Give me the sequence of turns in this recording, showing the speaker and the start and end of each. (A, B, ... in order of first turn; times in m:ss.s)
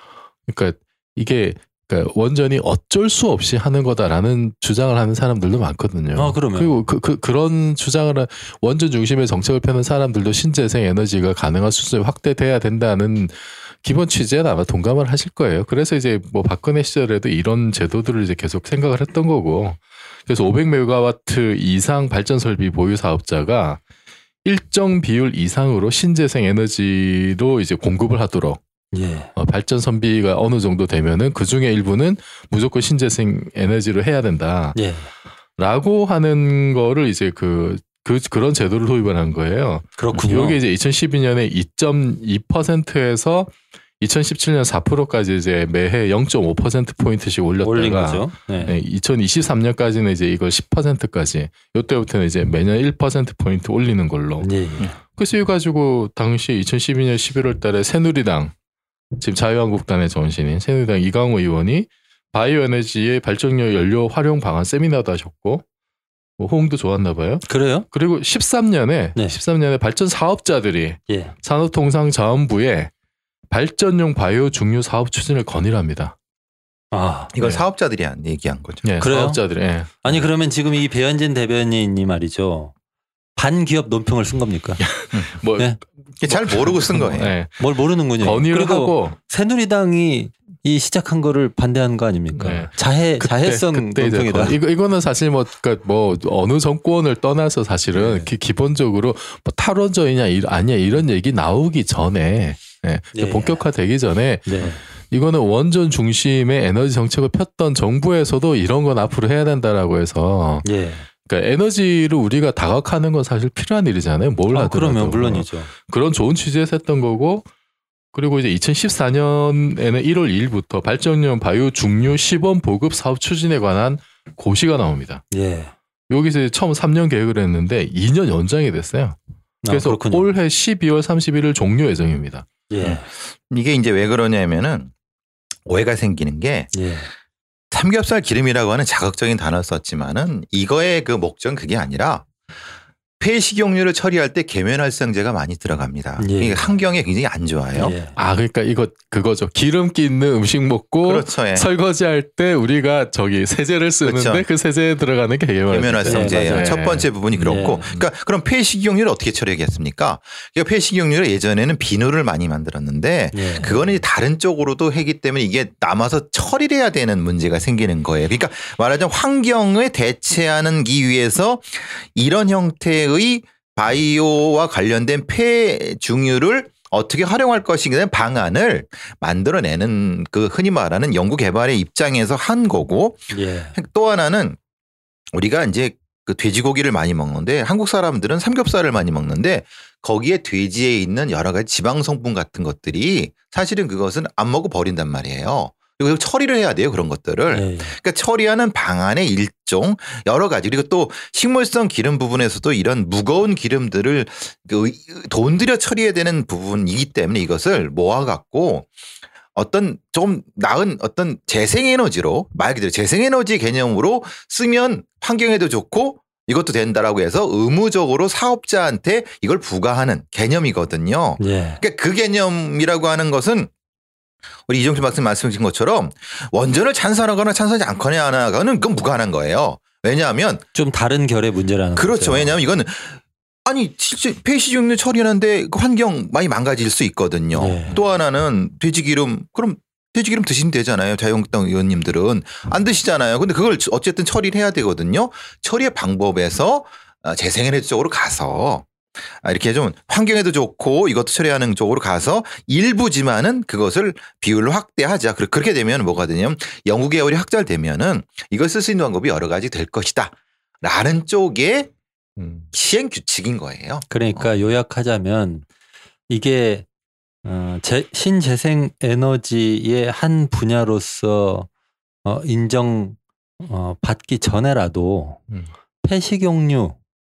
0:00.5-0:23.8 A
0:06.2-0:06.8 B
0:24.4-0:28.6 A
0:28.9-0:29.3 B
0:29.4-0:34.8 A
0:34.8-0:35.1 B
0:35.6-0:58.5 A
0:40.0-0:40.6 B
0:47.6-0:48.7 B
0:54.4-0:54.9 B
0:59.2-1:05.6 A
1:06.4-1:12.9 A
1:07.5-1:07.9 B
1:11.1-1:11.3 B
1:13.5-1:16.2 A
1:16.9-1:17.3 B
1:17.3-1:18.9 C
1:18.8-1:20.2 A
1:19.0-1:19.4 B
1:20.0-1:22.7 B
1:23.4-1:24.9 B
1:24.8-1:29.2 A
1:26.2-1:27.3 C
1:27.6-1:34.6 B
1:32.3-1:50.7 A
1:37.9-1:38.3 B
1:43.1-1:43.6 B
1:44.5-1:44.8 B
1:50.6-1:51.1 B
1:51.2-1:57.5 A
1:54.5-1:55.7 B
1:58.1-2:05.2 A
2:05.3-2:05.7 B
2:06.1-2:09.2 A
2:09.6-2:10.3 B
2:09.7-2:12.5 A
2:12.7-2:13.1 B
2:13.5-2:14.9 C
2:15.7-2:16.7 C
2:16.7-2:17.1 B
2:17.7-2:22.3 C
2:23.2-2:28.0 C
2:26.2-2:26.7 B
2:27.8-2:28.2 B
2:28.2-2:38.1 A
2:31.0-2:31.7 C
2:34.0-2:34.4 C
2:35.7-3:04.6 C
2:36.0-2:36.8 B
2:37.4-2:37.9 B
2:43.3-2:43.7 B
3:03.3-3:03.8 B
3:05.3-3:28.9 C
3:17.5-3:18.0 B
3:29.6-3:43.7 C
3:41.4-3:41.8 B
3:44.7-3:50.6 C
3:50.7-3:52.6 B
3:52.0-4:08.9 C
3:57.5-3:58.0 B
4:09.4-4:21.9 C
4:22.4-4:22.7 A
4:22.7-4:24.5 C
4:24.1-4:25.6 B
4:26.3-4:26.9 B
4:27.4-4:31.7 B
4:32.2-4:35.4 B
4:36.0-4:37.0 B